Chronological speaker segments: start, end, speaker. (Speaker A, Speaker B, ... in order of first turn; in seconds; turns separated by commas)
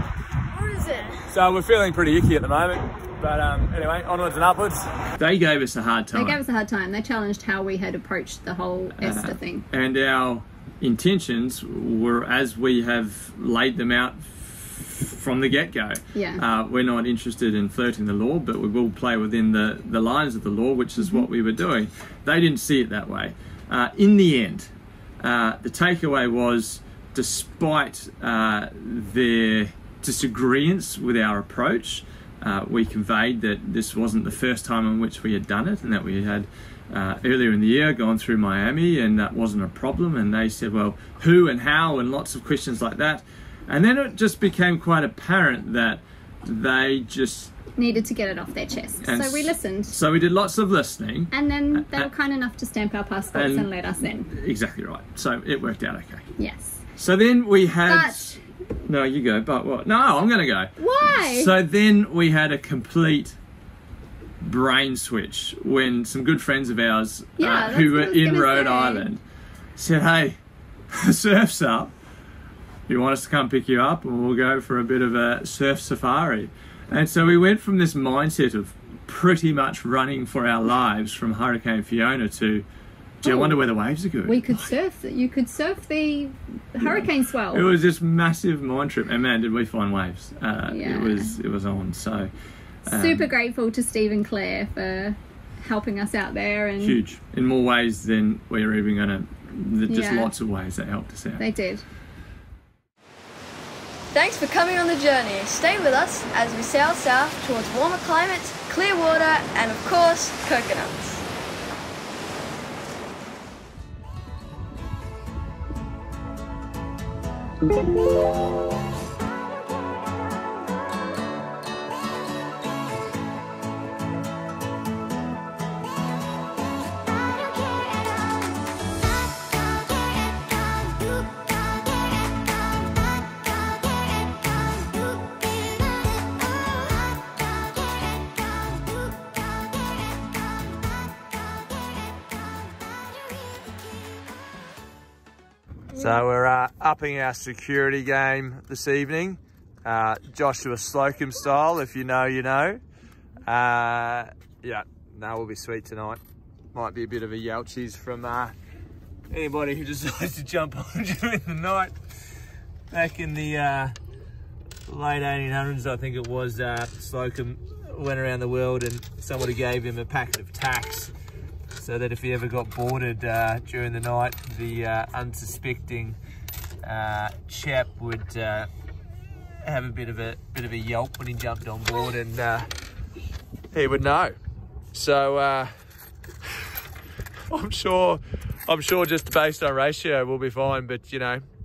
Speaker A: 0.5-1.3, Speaker B: 1.3-6.4, Speaker C: 6.1-9.7, Speaker B: 9.0-47.5, Speaker C: 16.1-16.4, Speaker C: 21.0-21.2, Speaker C: 47.8-50.0, Speaker B: 49.0-52.1, Speaker C: 51.3-54.3, Speaker B: 53.3-53.7, Speaker B: 54.3-56.2, Speaker C: 56.4-56.8, Speaker B: 57.0-63.4, Speaker C: 57.9-58.3, Speaker C: 60.8-61.5, Speaker B: 64.4-69.2, Speaker C: 67.4-69.1, Speaker B: 69.8-70.4, Speaker B: 70.9-71.9, Speaker B: 72.9-82.7, Speaker B: 83.2-84.7, Speaker C: 83.2-83.5, Speaker C: 84.2-87.7, Speaker B: 86.8-92.3, Speaker C: 90.7-91.3, Speaker B: 92.9-93.3, Speaker C: 92.9-97.0, Speaker B: 96.8-101.4, Speaker C: 99.9-100.3, Speaker C: 101.4-101.8, Speaker A: 104.1-111.2, Speaker B: 145.9-152.8, Speaker B: 153.4-156.2, Speaker B: 156.7-158.6, Speaker B: 159.3-162.0, Speaker B: 162.9-163.9, Speaker B: 164.9-171.1, Speaker B: 171.7-176.2, Speaker B: 176.8-178.7, Speaker B: 179.6-182.7, Speaker B: 183.7-184.4, Speaker B: 184.9-185.7, Speaker B: 187.5-191.4